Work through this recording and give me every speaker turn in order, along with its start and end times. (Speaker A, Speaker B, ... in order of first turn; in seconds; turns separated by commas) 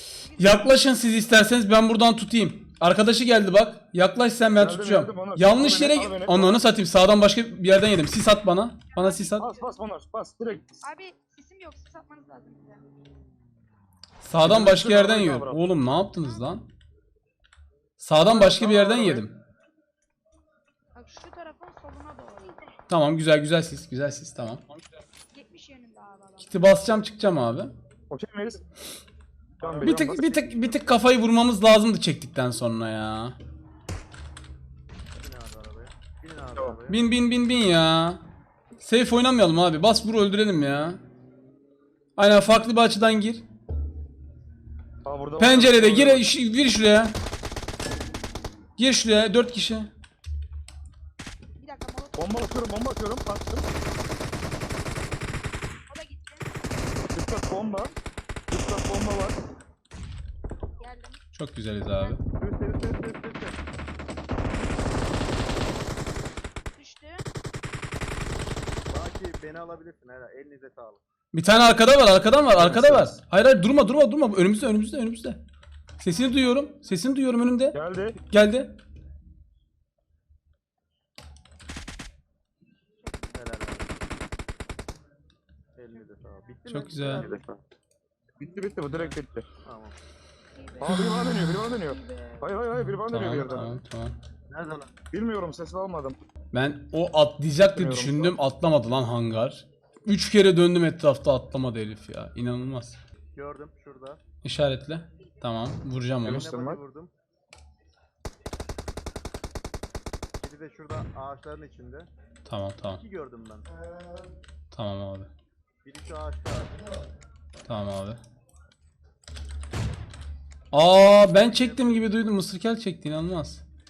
Speaker A: 0.2-0.9, Speaker B: 0.4-9.4, Speaker C: 4.5-6.6, Speaker A: 8.9-9.8, Speaker C: 9.4-10.8, Speaker A: 10.7-12.8, Speaker B: 14.2-16.7, Speaker C: 14.4-15.6, Speaker A: 16.1-16.5, Speaker B: 18.0-19.3, Speaker C: 18.2-19.3, Speaker A: 20.9-22.6, Speaker B: 22.9-24.6, Speaker A: 25.3-26.8, Speaker B: 26.4-27.7, Speaker C: 28.1-28.6, Speaker D: 29.6-30.9, Speaker C: 29.6-30.3, Speaker B: 29.8-33.4, Speaker D: 35.1-37.0, Speaker B: 36.9-38.2, Speaker B: 38.8-41.0, Speaker B: 42.2-43.4, Speaker C: 45.0-46.3, Speaker B: 45.4-47.2, Speaker B: 48.8-49.9, Speaker A: 51.6-52.9, Speaker C: 52.1-53.6, Speaker A: 55.9-56.5, Speaker C: 57.1-57.9, Speaker A: 57.1-57.9, Speaker C: 58.5-59.4, Speaker A: 60.8-61.2, Speaker B: 61.3-62.2, Speaker A: 61.9-62.2, Speaker D: 62.4-63.6, Speaker A: 66.8-67.2, Speaker D: 68.9-71.0, Speaker B: 71.3-75.4, Speaker C: 72.5-73.1, Speaker B: 76.0-78.8, Speaker A: 76.1-77.0, Speaker C: 77.7-78.2, Speaker D: 83.3-84.0, Speaker D: 85.8-87.5, Speaker B: 86.7-87.3, Speaker C: 87.2-87.4, Speaker C: 88.4-89.5, Speaker D: 88.9-90.0, Speaker A: 90.5-92.6, Speaker C: 90.8-93.8, Speaker B: 90.9-91.6, Speaker B: 92.8-94.1, Speaker D: 94.5-94.9, Speaker C: 95.1-96.2, Speaker B: 96.5-103.0, Speaker C: 97.6-98.4, Speaker D: 103.3-104.2, Speaker B: 104.4-106.4, Speaker C: 106.2-106.8, Speaker D: 106.2-107.1, Speaker D: 110.4-112.1, Speaker B: 112.5-113.0, Speaker D: 112.9-113.7, Speaker B: 114.7-115.3, Speaker D: 115.8-116.9, Speaker B: 117.7-118.2, Speaker B: 120.7-123.6, Speaker D: 121.2-122.2